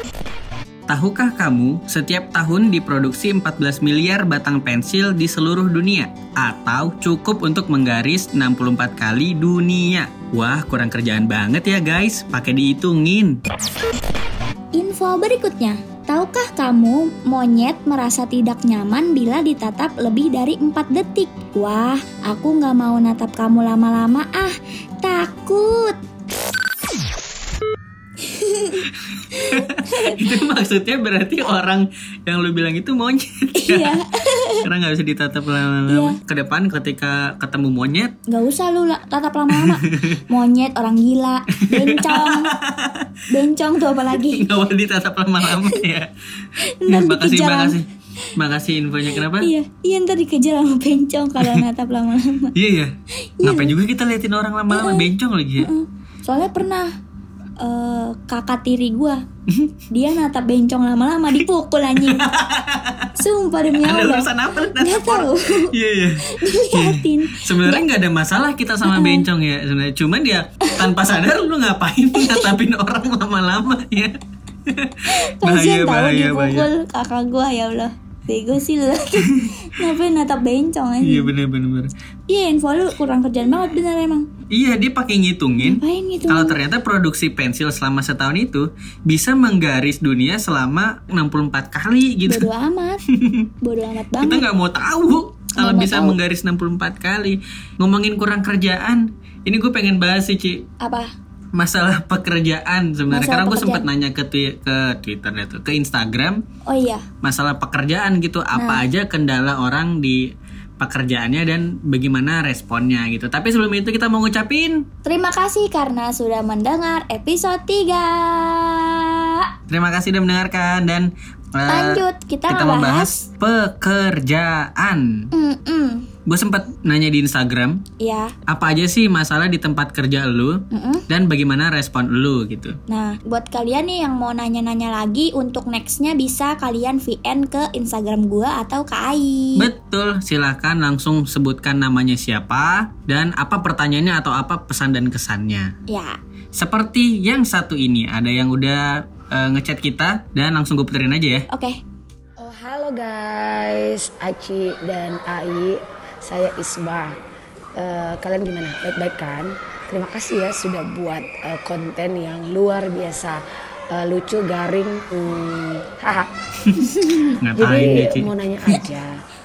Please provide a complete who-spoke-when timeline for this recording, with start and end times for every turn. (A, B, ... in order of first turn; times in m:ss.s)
0:00.9-0:13.4 A
0:14.8-0:26.0 B
0:28.2-0:30.2 B
0:28.9-0:34.0 A
0:33.5-0:34.7 B
0:34.6-0:38.1 A
0:35.9-0:36.2 B
0:38.3-0:42.5 B
0:39.5-0:40.2 A
0:41.6-0:43.1 A
0:43.3-0:44.5 B
0:44.1-0:46.1 A
0:45.5-0:45.8 B
0:46.6-0:48.3 B
0:46.8-0:49.5 A
0:49.1-0:52.5 B
0:51.4-0:51.6 A
0:52.5-0:55.7 A
0:53.2-0:53.7 B
0:54.7-0:55.1 B
0:55.6-0:56.9 B
0:57.6-0:59.2 B
0:59.5-0:59.7 A
0:59.9-1:02.2 B
1:02.0-1:03.1 A
1:03.2-1:07.9 B
1:03.7-1:16.7 A
1:08.8-1:09.2 B
1:10.6-1:10.9 B
1:12.1-1:12.5 B
1:15.0-1:21.3 B
1:19.1-1:19.5 A
1:21.0-1:21.9 A
1:22.3-1:24.2 B
1:24.5-1:32.5 A
1:25.6-1:26.6 B
1:32.2-1:33.0 B
1:33.1-1:33.5 A
1:33.6-1:34.4 B
1:34.2-1:40.7 A
1:35.5-1:36.2 B
1:40.8-1:41.1 B
1:41.5-1:46.4 A
1:43.1-1:43.9 B
1:46.6-1:47.0 B
1:47.2-1:50.2 A
1:48.5-1:48.8 B
1:50.8-1:54.8 A
1:55.0-1:59.5 B
1:59.7-2:05.3 A
2:01.7-2:03.2 B
2:05.3-2:06.1 B
2:06.2-2:07.8 A
2:08.0-2:08.3 B
2:08.5-2:12.8 A
2:10.7-2:11.0 B
2:12.9-2:19.7 B
2:19.6-2:25.7 A
2:25.9-2:26.2 B
2:26.5-2:31.5 A
2:31.5-2:31.8 B
2:32.4-2:37.2 C
2:37.8-2:46.3 C
2:46.6-2:48.3 A
2:46.8-2:47.3 B
2:47.6-2:49.1 C